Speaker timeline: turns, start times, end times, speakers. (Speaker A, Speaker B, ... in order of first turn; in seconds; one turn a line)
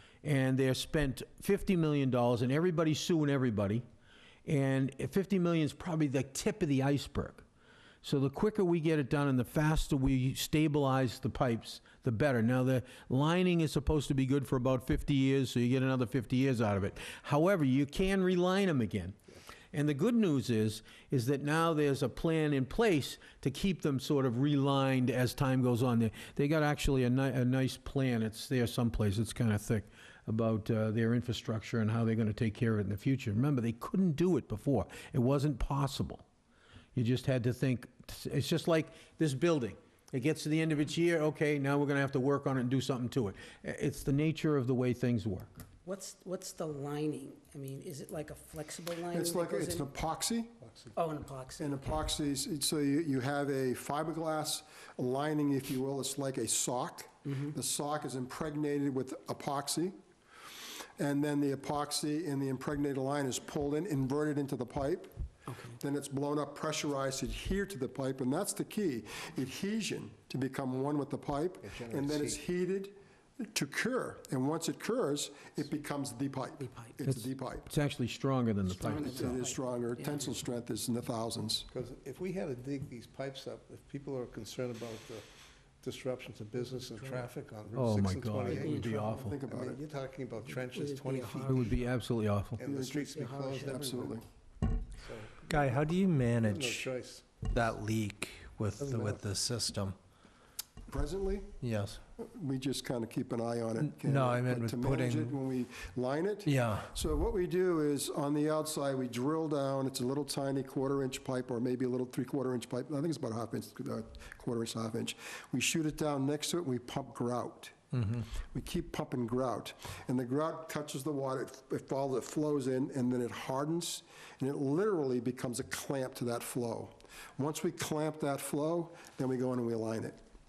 Speaker A: 0.2-3.8
Speaker A: 4.5-7.4
Speaker A: 8.0-19.2
Speaker A: 19.7-36.2
Speaker A: 37.0-45.6
Speaker B: 45.9-49.9
Speaker C: 49.1-50.5
Speaker D: 50.6-50.9
Speaker B: 51.0-52.1
Speaker C: 51.6-59.9
Speaker B: 57.3-57.6
Speaker C: 61.0-65.1
Speaker B: 65.5-65.8
Speaker C: 65.7-77.7
Speaker D: 71.6-72.4
Speaker B: 76.6-77.0
Speaker A: 77.1-79.4
Speaker B: 78.7-80.4
Speaker C: 79.0-81.7
Speaker D: 81.7-85.2
Speaker D: 85.8-88.9
Speaker A: 87.7-89.4
Speaker B: 88.5-89.0
Speaker C: 88.8-89.8
Speaker D: 89.5-91.8
Speaker B: 90.5-91.7
Speaker A: 91.5-92.6
Speaker D: 92.6-94.2
Speaker C: 92.6-94.2
Speaker B: 93.2-93.8
Speaker D: 95.0-97.5
Speaker E: 95.5-100.0
Speaker D: 98.8-99.2
Speaker C: 100.9-101.5
Speaker E: 101.6-102.0
Speaker C: 102.2-130.2
Speaker E: 103.8-105.4
Speaker E: 106.5-106.9